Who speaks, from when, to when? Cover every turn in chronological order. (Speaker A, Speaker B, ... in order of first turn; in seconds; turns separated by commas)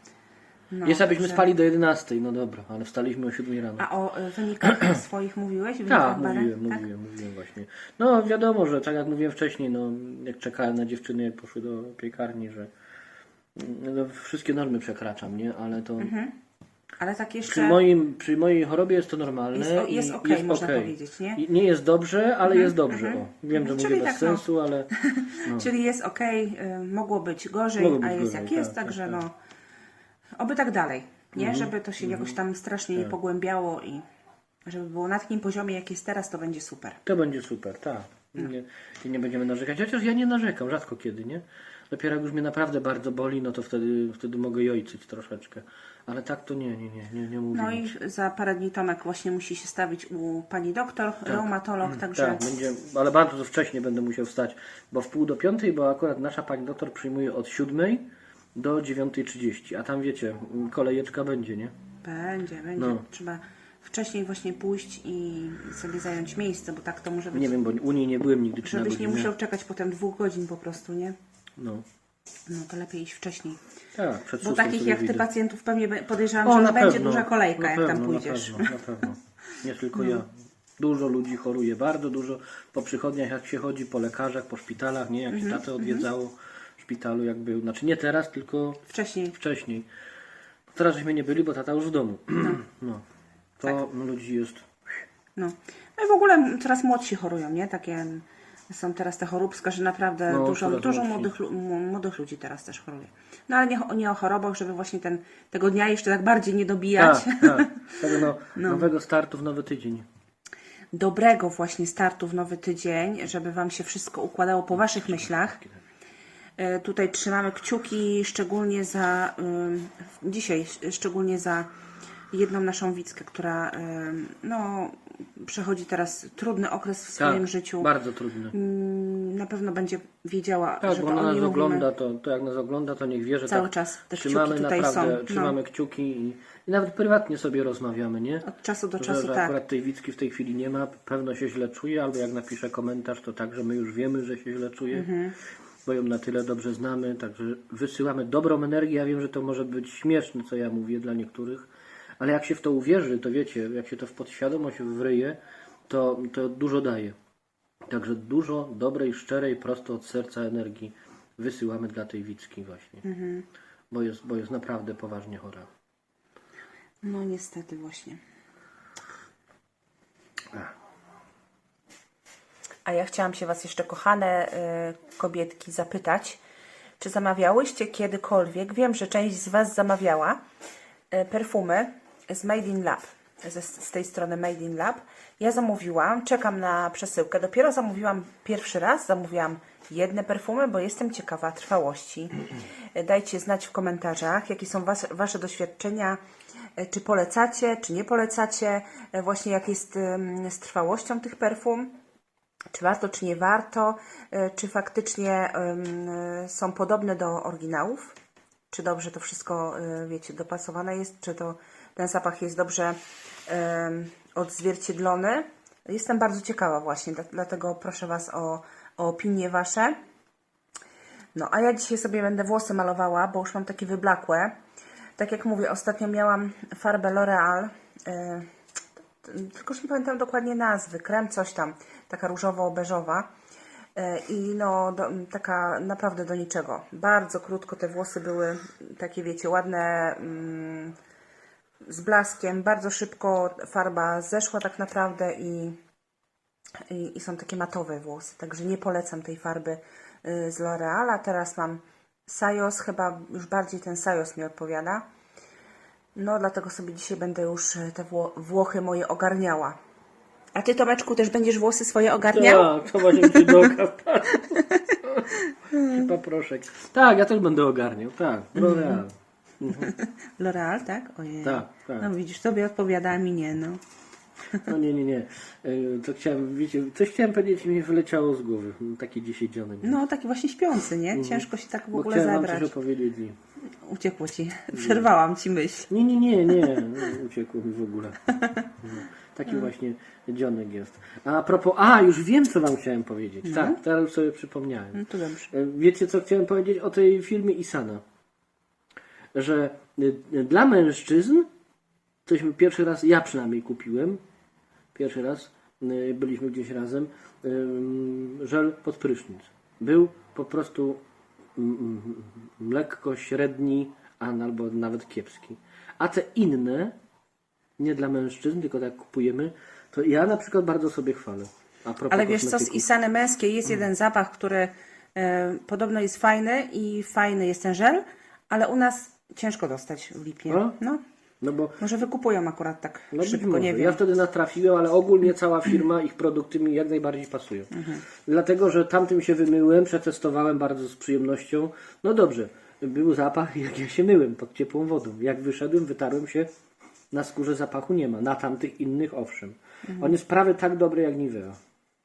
Speaker A: 0.7-1.5, Speaker B: 0.8-3.9, Speaker A: 3.8-6.8, Speaker B: 5.9-12.7, Speaker B: 13.6-16.1, Speaker A: 16.0-16.3, Speaker A: 17.0-17.8, Speaker B: 17.4-24.9, Speaker A: 19.5-21.4, Speaker A: 22.4-24.5, Speaker A: 25.0-29.4, Speaker B: 25.4-25.7, Speaker B: 27.8-29.2, Speaker A: 30.4-34.0, Speaker B: 31.4-32.4, Speaker A: 34.6-37.0, Speaker B: 37.1-47.9, Speaker A: 47.5-52.4, Speaker B: 51.3-61.7, Speaker A: 62.0-67.5, Speaker B: 62.8-63.0, Speaker B: 67.3-69.3, Speaker A: 68.6-71.2, Speaker B: 71.6-71.9, Speaker A: 72.5-73.6, Speaker B: 74.0-75.3, Speaker A: 74.4-78.7, Speaker B: 76.4-89.9, Speaker A: 80.0-80.2, Speaker A: 85.3-86.1, Speaker A: 88.9-89.4, Speaker B: 90.7-93.0, Speaker B: 93.6-95.0, Speaker A: 95.4-108.9, Speaker B: 100.3-101.3, Speaker B: 107.0-110.1, Speaker A: 110.9-115.6, Speaker A: 116.6-121.7, Speaker A: 122.3-127.9, Speaker B: 127.2-128.5, Speaker A: 128.5-131.9, Speaker B: 130.8-138.5, Speaker A: 133.5-135.6, Speaker A: 138.4-139.6, Speaker B: 139.0-145.1, Speaker A: 144.9-145.4, Speaker B: 145.8-157.2, Speaker B: 157.8-163.0, Speaker A: 163.0-163.5, Speaker B: 163.9-165.7, Speaker A: 167.0-168.2, Speaker A: 172.9-176.4, Speaker A: 177.0-180.4, Speaker A: 181.1-192.4, Speaker A: 192.9-196.2, Speaker A: 196.8-201.9, Speaker A: 202.7-208.2, Speaker A: 208.7-220.0, Speaker A: 221.3-224.5, Speaker A: 225.2-228.5, Speaker A: 229.2-233.3, Speaker A: 234.0-241.0, Speaker A: 241.9-245.8, Speaker A: 246.9-255.1, Speaker A: 256.1-259.8, Speaker A: 260.6-263.6, Speaker B: 262.3-269.9, Speaker A: 264.5-266.0, Speaker A: 268.6-269.0, Speaker A: 269.6-273.8, Speaker B: 271.4-272.1, Speaker B: 274.6-280.0, Speaker A: 279.8-282.7, Speaker B: 281.1-283.4, Speaker A: 283.8-285.9, Speaker B: 284.8-285.0, Speaker B: 285.9-298.0, Speaker A: 293.4-293.8, Speaker A: 294.9-295.5, Speaker B: 299.3-301.5, Speaker B: 302.3-304.2, Speaker B: 304.9-311.0, Speaker B: 311.6-317.0, Speaker B: 317.8-322.9, Speaker A: 322.1-331.0, Speaker B: 330.5-330.8, Speaker B: 331.4-331.8, Speaker A: 331.8-334.0, Speaker B: 333.1-346.5, Speaker A: 337.7-338.0, Speaker B: 347.1-351.6, Speaker A: 349.9-350.1